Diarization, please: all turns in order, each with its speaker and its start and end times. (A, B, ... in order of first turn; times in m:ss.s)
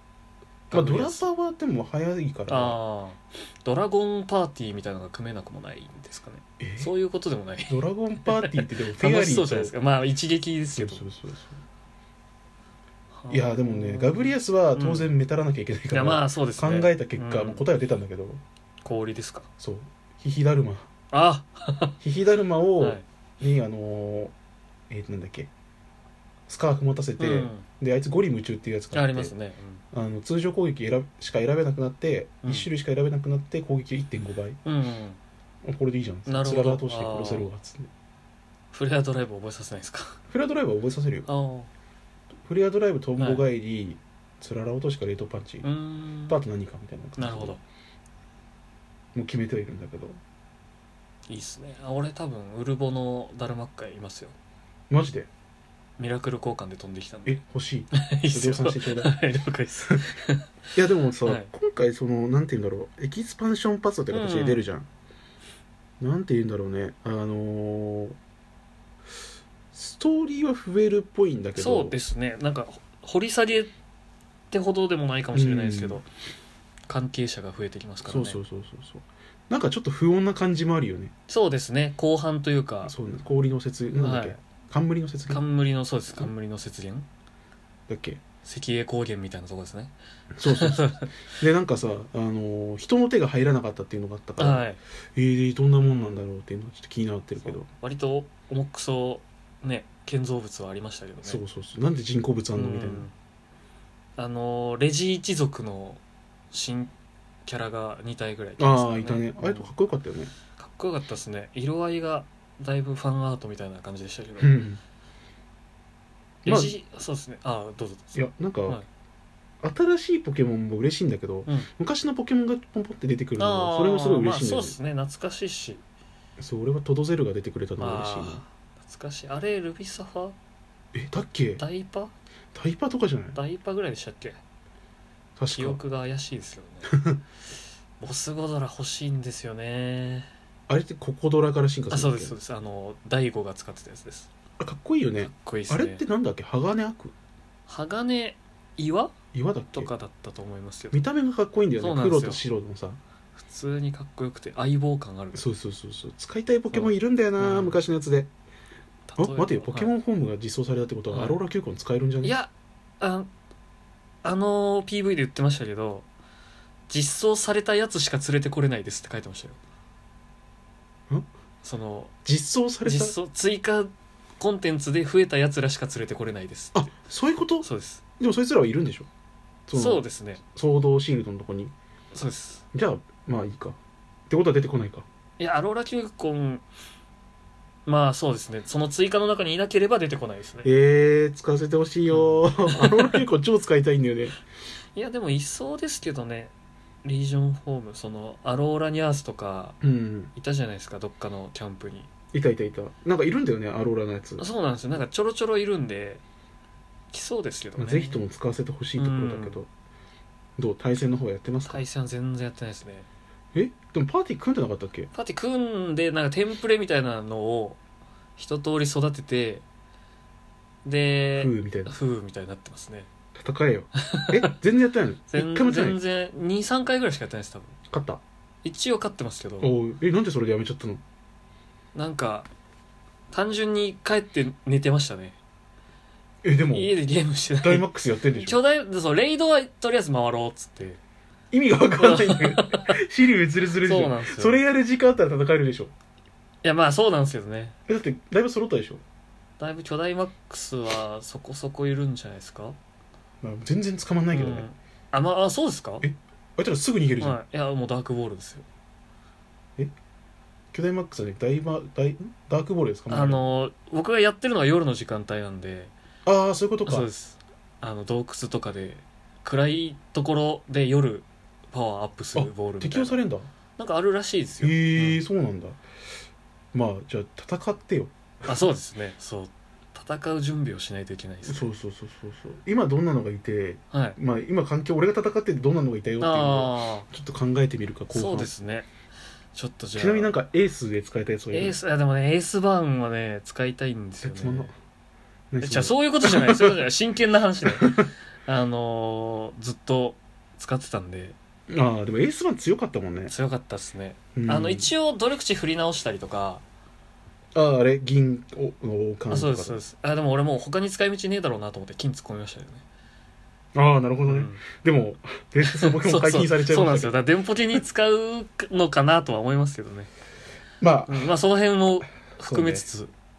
0:00.7-0:01.2 A
0:00.7-0:02.8 B
0:02.5-0:11.0 A
0:06.6-0:06.9 B
0:07.7-0:09.8 B
0:10.8-0:11.6 B
0:13.2-0:15.1 A
0:13.3-0:18.4 B
0:15.9-0:17.6 A
0:18.8-0:19.5 A
0:19.6-0:20.9 B
0:21.1-0:22.0 A
0:22.0-0:24.3 B
0:22.8-0:23.0 A
0:24.9-0:25.5 B
0:26.5-0:29.3 B
0:27.2-0:27.7 A
0:28.9-0:29.8 A
0:29.9-0:34.6 B
0:32.4-0:32.7 A
0:34.6-0:35.2 A
0:35.6-0:37.9 B
0:36.3-0:37.5 A
0:38.7-0:40.2 A
0:40.3-0:41.3 B
0:41.3-0:41.7 A
0:42.4-0:45.7 B
0:43.2-0:43.5 A
0:45.6-0:46.4 A
0:46.3-0:47.6 B
0:47.2-0:47.6 A
0:49.2-0:50.2 B
0:51.3-0:54.4 A
0:54.9-0:55.3 B
0:56.0-0:57.4 A
0:57.3-0:59.2 B
0:57.9-1:00.4 A
1:00.8-1:04.9 B
1:01.2-1:01.5 A
1:04.1-1:04.6 A
1:06.0-1:08.2 B
1:09.7-1:12.0 B
1:11.6-1:13.7 A
1:14.5-1:16.1 A
1:15.3-1:16.0 B
1:16.9-1:18.4 A
1:18.0-1:21.1 B
1:21.3-1:22.9 A
1:22.8-1:25.4 B
1:23.9-1:24.4 A
1:25.3-1:27.1 A
1:27.9-1:28.2 B
1:28.4-1:31.1 A
1:30.4-1:37.7 B
1:34.4-1:34.8 A
1:35.8-1:36.2 A
1:37.4-1:41.4 A
1:41.2-1:43.1 B
1:42.6-1:43.1 A
1:44.2-1:46.0 A
1:46.5-1:46.9 A
1:47.5-1:49.7 A
1:48.6-1:50.3 B
1:50.6-1:54.6 A
1:54.4-1:54.8 B
1:56.4-1:56.8 B
1:56.4-1:58.8 A
1:58.2-1:58.8 B
1:59.6-2:04.8 B
2:03.4-2:05.8 A
2:06.4-2:08.4 B
2:07.8-2:10.4 A
2:10.9-2:11.6 B
2:11.6-2:12.1 A
2:12.5-2:13.4 B
2:13.4-2:14.4 A
2:15.4-2:15.8 B
2:15.5-2:17.0 A
2:16.9-2:17.2 B
2:18.0-2:20.3 A
2:20.7-2:22.4 B
2:21.9-2:24.3 A
2:24.6-2:27.1 B
2:25.3-2:26.0 A
2:27.7-2:29.1 A
2:29.3-2:29.9 B
2:29.7-2:31.0 A
2:30.9-2:33.0 B
2:31.8-2:32.4 A
2:33.4-2:35.4 A
2:35.3-2:38.3 B
2:36.7-2:37.8 A
2:39.1-2:39.9 A
2:39.2-2:42.4 B
2:41.1-2:41.4 A
2:42.2-2:43.3 A
2:44.2-2:46.1 A
2:46.9-2:49.6 A
2:51.6-2:52.1 A
2:52.2-2:53.2 B
2:52.8-2:56.9 A
2:56.7-2:57.7 B
2:57.6-2:58.0 A
2:58.2-2:59.1 B
2:59.7-3:00.0 B
2:59.7-3:00.4 A
3:00.6-3:01.7 B
3:02.1-3:02.6 A
3:02.7-3:03.8 B
3:04.3-3:05.1 B
3:05.4-3:06.6 A
3:07.9-3:10.7 A
3:10.6-3:14.4 B
3:12.1-3:13.2 A
3:15.0-3:16.5 A
3:17.0-3:19.8 A
3:19.8-3:20.3 B
3:20.4-3:22.1 A
3:22.3-3:24.4 B
3:24.4-3:26.2 A
3:27.1-3:28.2 A
3:27.8-3:29.7 B
3:29.0-3:29.6 A
3:30.6-3:31.8 B
3:31.7-3:33.1 A
3:33.5-3:35.1 B
3:35.1-3:37.8 A
3:38.4-3:39.6 A
3:40.8-3:43.1 A
3:41.4-3:41.9 B
3:43.4-3:46.0 B
3:44.1-3:44.5 A
3:45.3-3:47.7 A
3:47.9-3:48.2 B
3:48.6-3:49.7 A
3:49.6-3:51.0 B
3:52.0-3:52.5 A
3:53.3-3:55.4 A
3:56.4-3:57.0 B
3:56.7-4:01.0 A
3:57.6-3:58.6 B
4:01.5-4:05.9 B
4:02.0-4:03.0 A
4:03.8-4:04.6 A
4:06.6-4:07.8 A
4:07.9-4:09.0 B
4:09.6-4:12.8 A
4:13.4-4:14.7 B
4:14.3-4:16.1 A
4:16.0-4:17.4 B
4:17.2-4:18.6 A
4:20.7-4:23.4 B
4:23.1-4:25.9 A
4:26.3-4:27.1 B
4:26.9-4:33.2 A
4:32.4-4:33.5 B
4:33.8-4:35.2 A
4:34.6-4:35.8 B
4:36.7-4:38.5 B
4:38.4-4:41.7 A
4:41.5-4:48.5 B
4:43.9-4:44.2 A
4:46.2-4:47.1 A
4:48.1-4:48.9 A
4:49.5-4:50.3 A
4:50.0-4:51.8 B
4:51.5-4:54.7 A
4:54.2-4:54.7 B
4:55.5-4:56.7 B
4:55.6-5:01.4 A
4:57.7-4:58.0 B
5:01.7-5:03.3 B
5:03.3-5:06.6 A
5:04.4-5:04.9 B
5:07.6-5:09.8 B
5:09.3-5:12.8 A
5:13.8-5:17.8 B
5:14.3-5:14.6 A
5:15.7-5:20.1 A
5:20.8-5:21.4 B
5:21.1-5:23.1 A
5:22.4-5:22.9 B